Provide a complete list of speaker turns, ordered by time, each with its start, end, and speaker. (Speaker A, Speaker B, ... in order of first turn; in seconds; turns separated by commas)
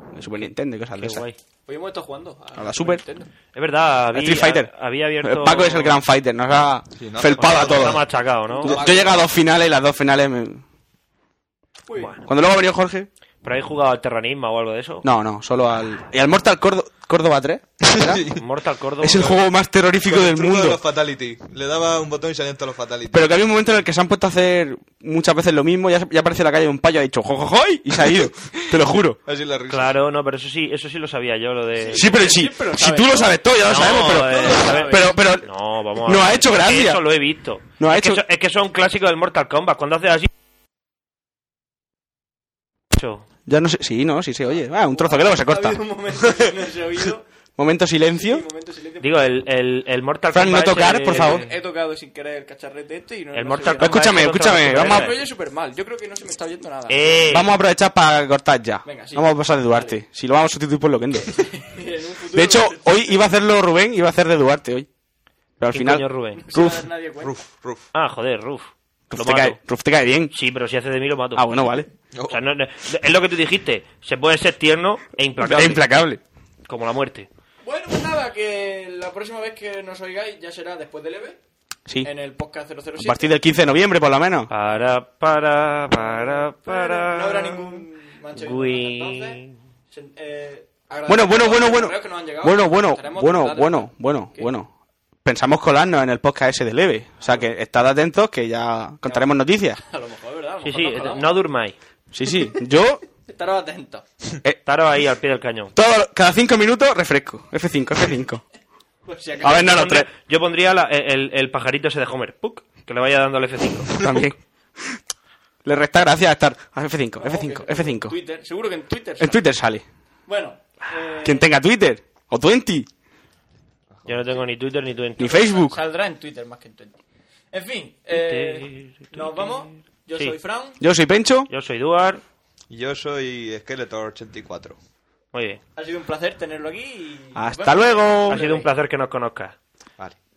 Speaker A: 0.1-1.2, Speaker B: 1.0-1.4, Speaker C: 1.7-3.3, Speaker A: 2.6-3.0, Speaker B: 3.5-6.0, Speaker A: 4.1-4.7, Speaker A: 5.2-8.1, Speaker D: 7.0-8.1, Speaker B: 7.3-8.8, Speaker C: 8.6-9.3, Speaker A: 8.6-10.6, Speaker D: 8.7-9.0, Speaker C: 11.9-12.1, Speaker B: 12.0-12.2, Speaker A: 12.3-13.1, Speaker B: 13.4-15.1, Speaker A: 15.0-18.2, Speaker D: 17.8-18.4, Speaker B: 18.4-19.2, Speaker A: 19.0-20.8, Speaker D: 19.0-19.4, Speaker D: 20.0-23.4, Speaker A: 23.1-29.2, Speaker D: 28.6-30.0, Speaker B: 29.7-32.3, Speaker C: 31.8-35.2, Speaker A: 31.9-35.5, Speaker B: 33.6-40.3, Speaker A: 36.0-37.0, Speaker A: 37.8-38.2, Speaker B: 42.9-43.2, Speaker A: 43.5-45.8, Speaker C: 44.4-47.2, Speaker A: 47.6-48.5, Speaker C: 48.1-49.4, Speaker B: 49.0-51.6, Speaker A: 50.3-51.5, Speaker C: 51.1-57.4, Speaker B: 53.3-55.2, Speaker A: 53.8-55.1, Speaker B: 56.9-57.5, Speaker A: 57.3-61.4, Speaker C: 58.9-60.0, Speaker C: 61.3-63.2, Speaker A: 62.3-64.9, Speaker A: 65.6-66.8, Speaker B: 65.7-66.4, Speaker C: 66.4-67.3, Speaker D: 67.2-67.9, Speaker B: 67.9-69.6, Speaker A: 69.1-70.3, Speaker B: 70.3-71.5, Speaker A: 71.4-71.9, Speaker D: 72.2-72.4, Speaker B: 72.3-75.9, Speaker A: 75.4-76.2, Speaker B: 76.7-77.3, Speaker C: 77.6-81.4, Speaker C: 82.0-83.5, Speaker A: 83.0-84.5, Speaker B: 84.5-87.8, Speaker C: 86.0-94.5, Speaker B: 88.4-89.5, Speaker A: 91.1-94.7, Speaker A: 95.2-99.8, Speaker C: 99.0-101.4, Speaker B: 100.6-101.8, Speaker A: 102.1-103.0, Speaker C: 103.3-104.0, Speaker B: 104.7-105.7, Speaker A: 105.8-108.4, Speaker C: 109.1-109.9, Speaker A: 109.4-110.1, Speaker B: 109.4-114.0, Speaker A: 113.9-115.0, Speaker A: 115.7-118.1, Speaker C: 117.2-119.4, Speaker A: 119.2-119.8, Speaker C: 120.3-121.5, Speaker A: 121.2-122.9, Speaker B: 124.1-125.5, Speaker A: 125.2-125.8, Speaker C: 125.2-127.0, Speaker C: 127.5-130.8, Speaker B: 128.1-130.4, Speaker A: 130.8-131.5, Speaker B: 131.5-132.2, Speaker D: 132.7-134.8, Speaker B: 135.3-135.6, Speaker C: 135.8-138.7, Speaker A: 137.3-138.4, Speaker B: 138.3-139.6